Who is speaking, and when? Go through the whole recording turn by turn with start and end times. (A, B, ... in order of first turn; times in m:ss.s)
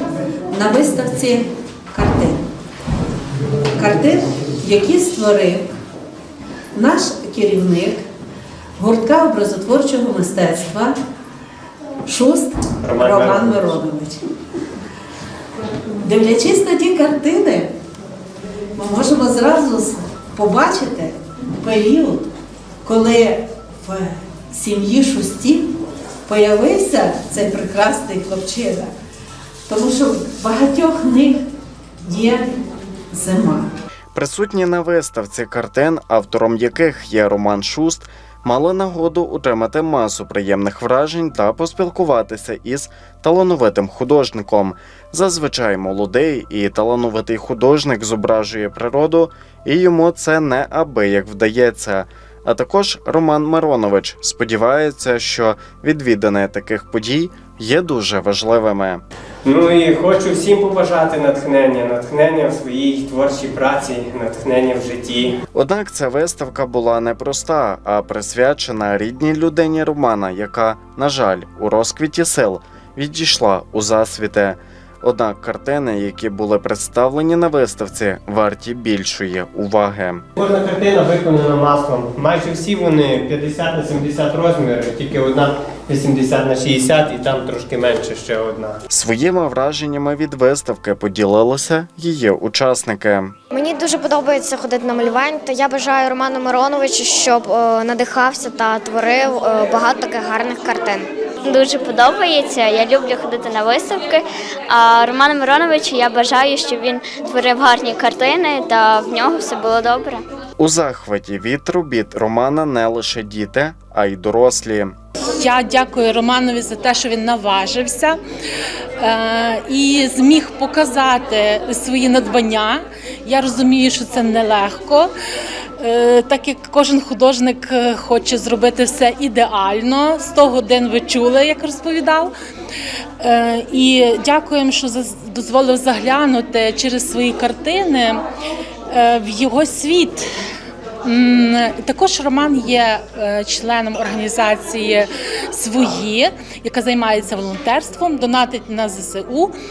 0:00.5-0:02.4 A
0:03.8-0:05.7 A
0:06.7-0:08.0 A
0:08.8-0:11.0 A
0:12.1-0:14.2 A
0:12.8-0:13.7 B
0:16.0-0:17.7 A
0:18.8-0:22.3 A
0:22.8-0:25.7 A
0:26.3-0:28.9 A
0:29.7-0:31.4 A
0:32.0-0:32.5 A
0:33.1-0:33.7 A
0:34.2-0:59.0 C
0:59.4-1:05.4 B
1:05.5-1:20.2 C
1:20.4-1:28.8 B
1:28.9-1:33.4 C
1:33.5-1:41.1 D
1:41.4-1:50.2 E
1:50.6-1:55.0 C
1:55.3-1:58.2 F
1:59.0-2:05.1 F
2:05.8-2:12.3 F
2:13.2-2:18.2 F
2:18.9-2:20.3 F
2:21.0-2:29.5 F